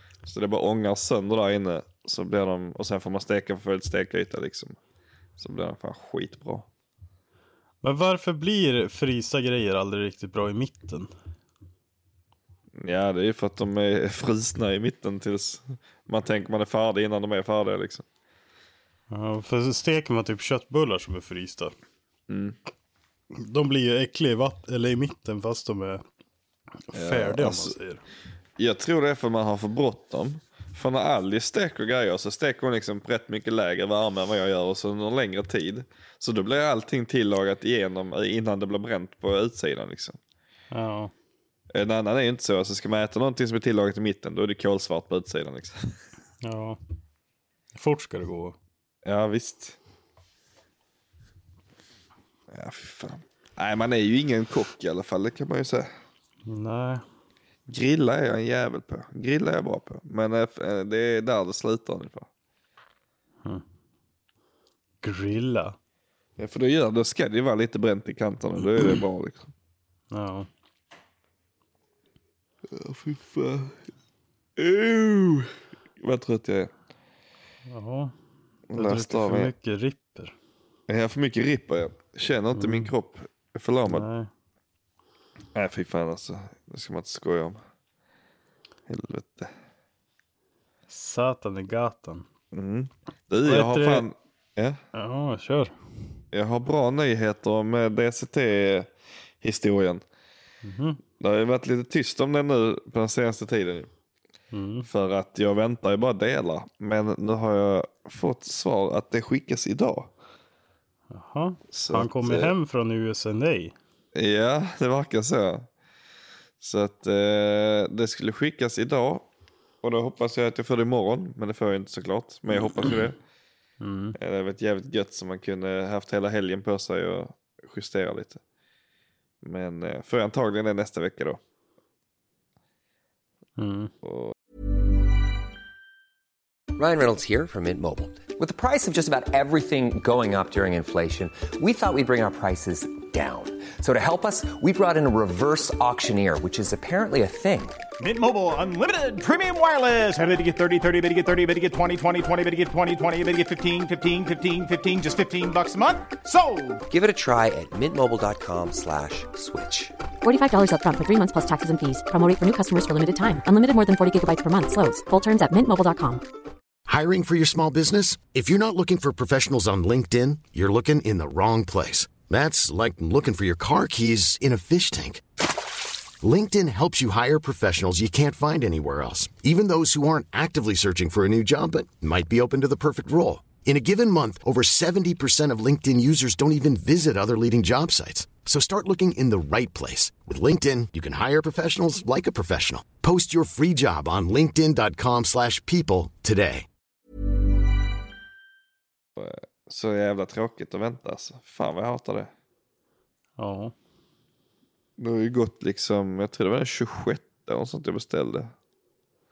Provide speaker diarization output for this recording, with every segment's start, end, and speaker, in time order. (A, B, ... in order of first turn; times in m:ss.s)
0:00.2-0:04.8 A
0:05.4-0:06.7 A
0:07.8-0:11.1 B
0:12.8-0:18.0 A
0:19.1-0:21.7 B
0:22.3-0:22.6 A
0:23.3-0:26.0 B
0:26.9-0:28.0 B
0:26.9-0:27.8 A
0:28.6-0:40.2 A
0:40.7-0:41.1 B
0:41.7-0:46.0 A
0:46.4-0:46.8 B
0:47.7-0:48.6 B
0:49.0-0:49.8 A
0:52.5-0:55.9 A
0:56.4-0:57.0 B
0:57.7-1:02.3 A
1:05.0-1:05.8 B
1:06.4-1:09.5 A
1:10.1-1:10.5 B
1:12.7-1:13.8 A
1:14.6-1:16.7 A
1:17.7-1:18.1 B
1:18.7-1:19.5 A
1:18.7-1:20.3 B
1:20.9-1:24.0 A
1:22.5-1:22.9 B
1:23.9-1:24.3 B
1:25.5-1:27.6 A
1:28.9-1:29.5 A
1:30.9-1:32.2 B
1:32.5-1:34.8 A
1:33.4-1:34.1 B
1:34.9-1:35.7 B
1:36.3-1:40.0 A
1:40.6-1:41.0 B
1:41.2-1:43.9 A
1:44.5-1:44.9 B
1:44.9-1:50.1 A
1:51.1-1:53.7 B
1:51.7-1:52.5 A
1:54.1-1:55.7 A
1:56.6-1:59.3 A
1:59.8-2:03.2 A
2:03.8-2:04.2 B
2:04.2-2:08.4 A
2:09.4-2:11.4 A
2:13.6-2:13.9 B
2:14.0-2:14.3 A
2:16.8-2:27.8 C
2:28.0-2:36.8 D
2:36.9-2:39.9 C
2:40.2-2:46.2 E
2:46.9-2:55.2 F
2:56.2-3:16.6 F
3:19.2-3:22.3 A
3:23.4-3:23.7 B
3:25.0-3:28.5 A